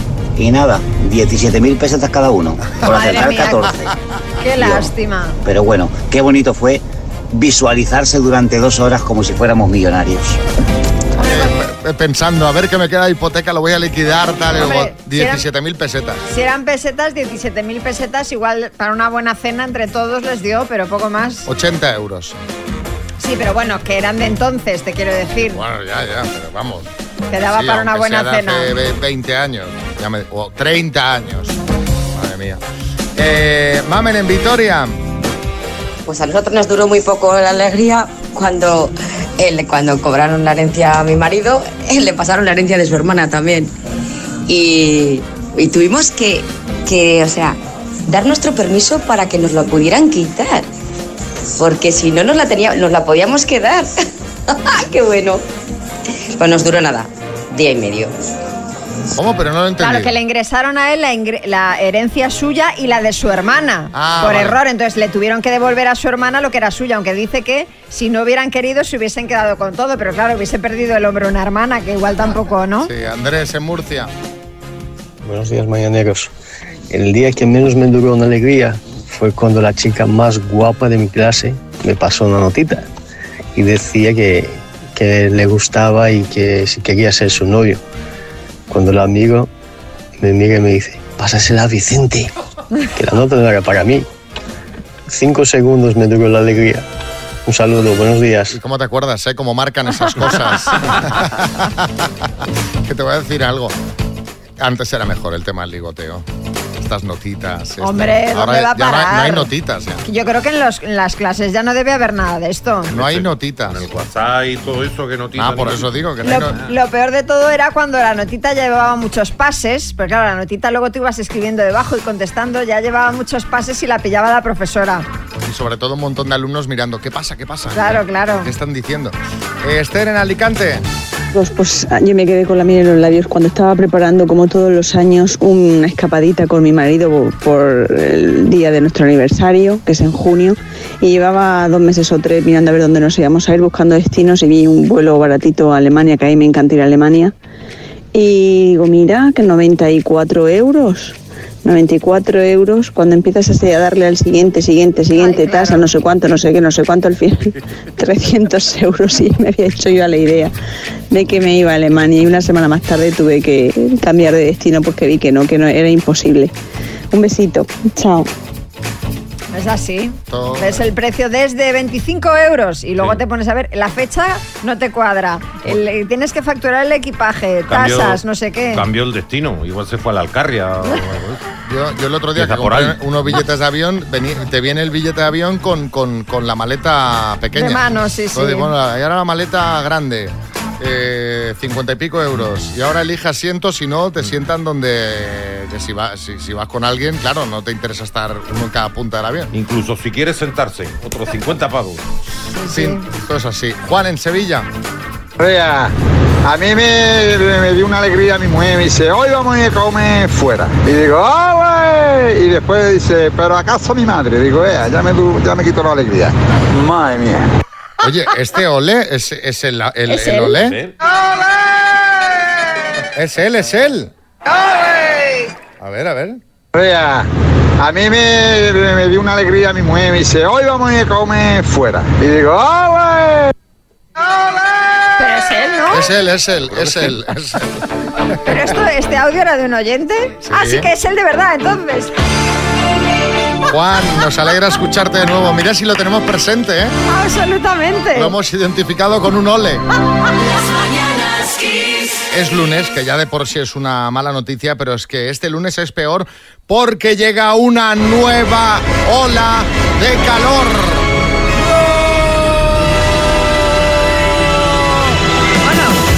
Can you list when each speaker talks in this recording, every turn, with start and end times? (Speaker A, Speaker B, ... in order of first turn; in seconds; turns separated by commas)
Speaker A: 0.3-3.9, Speaker B: 2.8-3.7, Speaker B: 4.4-5.4, Speaker A: 4.6-4.9, Speaker A: 5.4-10.4, Speaker C: 11.2-16.2, Speaker B: 11.2-11.5, Speaker B: 14.6-15.4, Speaker B: 16.3-21.5, Speaker C: 21.4-22.4, Speaker B: 23.2-25.6, Speaker C: 25.5-26.9, Speaker B: 27.3-28.7, Speaker C: 27.4-31.6, Speaker C: 32.1-32.6, Speaker C: 33.1-35.0, Speaker D: 36.0-43.7, Speaker D: 44.5-47.6, Speaker D: 48.1-50.7, Speaker D: 51.6-53.9, Speaker D: 54.5-55.4, Speaker D: 56.4-58.1, Speaker C: 59.1-60.1, Speaker B: 59.8-72.9, Speaker C: 63.9-64.6, Speaker C: 72.8-74.1, Speaker E: 75.2-76.3, Speaker E: 76.9-82.9, Speaker E: 83.5-87.8, Speaker E: 88.7-89.5, Speaker E: 90.2-92.3, Speaker E: 92.9-94.1, Speaker E: 95.1-96.8, Speaker E: 97.5-98.5, Speaker C: 98.5-102.3, Speaker C: 102.8-103.7, Speaker C: 104.6-106.2, Speaker C: 106.8-110.0, Speaker B: 107.8-109.5, Speaker B: 110.0-112.9, Speaker F: 112.9-116.0, Speaker C: 112.9-113.8, Speaker C: 115.3-116.5, Speaker B: 116.2-125.0, Speaker C: 125.4-130.8, Speaker B: 127.7-128.5, Speaker G: 131.3-147.3, Speaker G: 148.1-160.5, Speaker B: 155.2-155.8, Speaker G: 161.1-166.5, Speaker G: 167.1-168.3, Speaker B: 169.5-178.8, Speaker C: 170.3-170.8, Speaker F: 177.7-181.4, Speaker C: 181.6-199.5, Speaker F: 182.3-183.0, Speaker B: 187.5-188.7, Speaker F: 199.5-202.0, Speaker B: 202.5-203.0, Speaker C: 202.7-204.7, Speaker H: 205.4-205.9, Speaker H: 206.4-217.5, Speaker C: 218.0-220.8, Speaker B: 220.1-220.6, Speaker F: 220.6-220.9, Speaker C: 223.1-224.1, Speaker C: 225.8-226.4, Speaker H: 226.7-227.3, Speaker H: 227.8-233.5, Speaker B: 235.2-236.0, Speaker C: 235.9-237.8, Speaker F: 236.7-237.0, Speaker B: 238.4-242.1, Speaker C: 240.4-240.9, Speaker C: 243.7-246.9, Speaker B: 247.1-248.3, Speaker C: 248.1-249.8, Speaker C: 252.3-261.0, Speaker B: 265.6-266.0